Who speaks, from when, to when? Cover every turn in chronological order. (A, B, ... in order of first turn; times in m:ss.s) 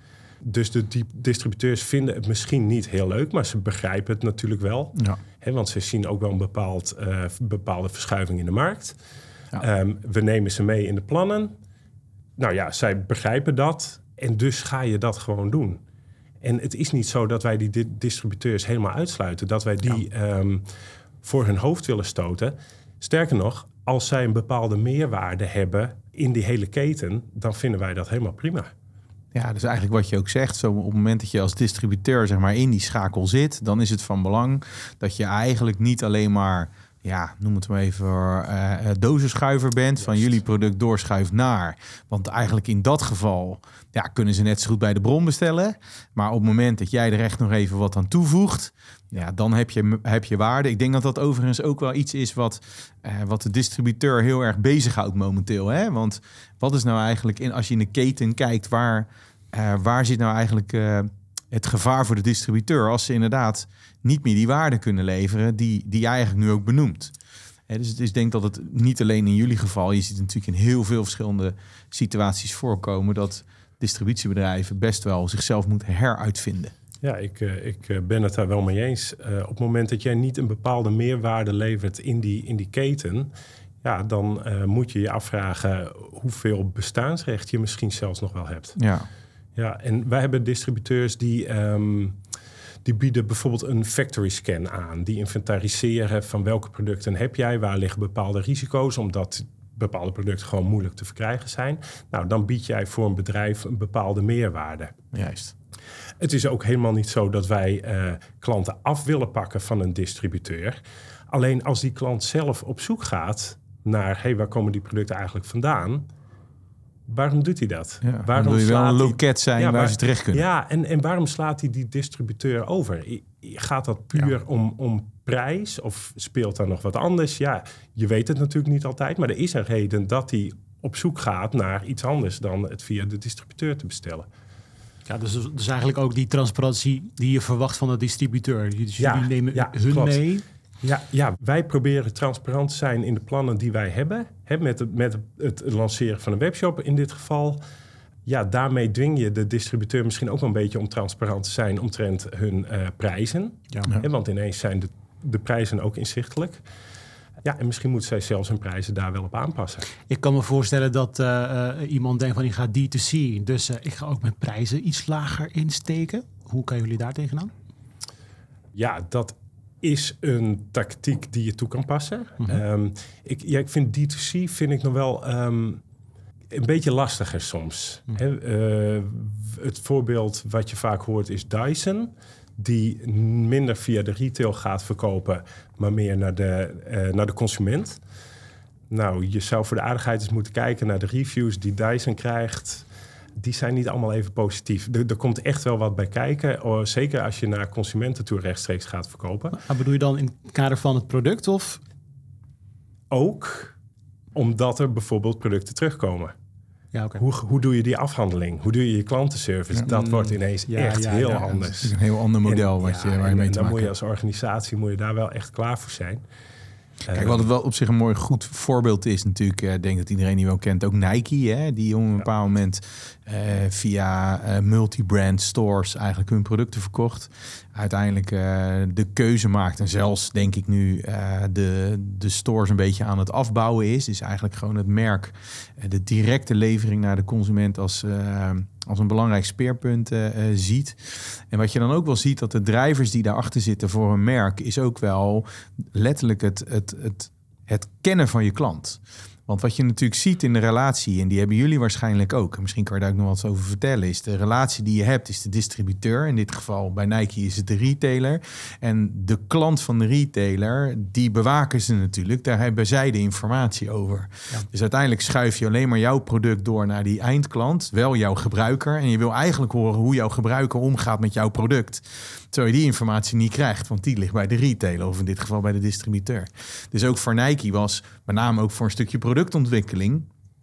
0:00.4-0:09.0 A
0:09.6-0:11.5 A
0:12.4-0:15.8 A
0:16.4-0:20.6 A
0:21.2-0:28.7 A
0:29.3-1:07.1 B
1:07.7-1:16.7 B
1:17.0-1:23.3 A
1:23.8-1:28.8 A
1:28.8-1:29.1 B
1:29.6-1:32.2 A
1:32.8-1:44.9 A
1:45.1-1:45.5 B
1:46.2-1:50.8 A
1:51.3-1:56.1 A
1:57.1-2:14.3 A
1:58.0-2:00.4 B
2:15.1-2:20.4 C
2:19.0-2:20.2 A
2:20.8-2:27.6 A
2:28.2-2:36.6 A
2:37.4-2:39.9 A
2:40.1-2:47.5 C
2:48.8-2:55.8 A
2:56.5-3:08.0 A
3:08.9-3:12.8 A
3:13.4-3:19.6 A
3:19.5-3:21.8 C
3:23.1-3:23.7 A
3:24.3-3:26.3 A
3:26.9-3:27.2 C
3:27.2-3:36.2 A
3:29.8-3:31.7 C
3:31.8-3:33.9 B
3:37.0-3:37.4 A
3:37.1-4:40.3 B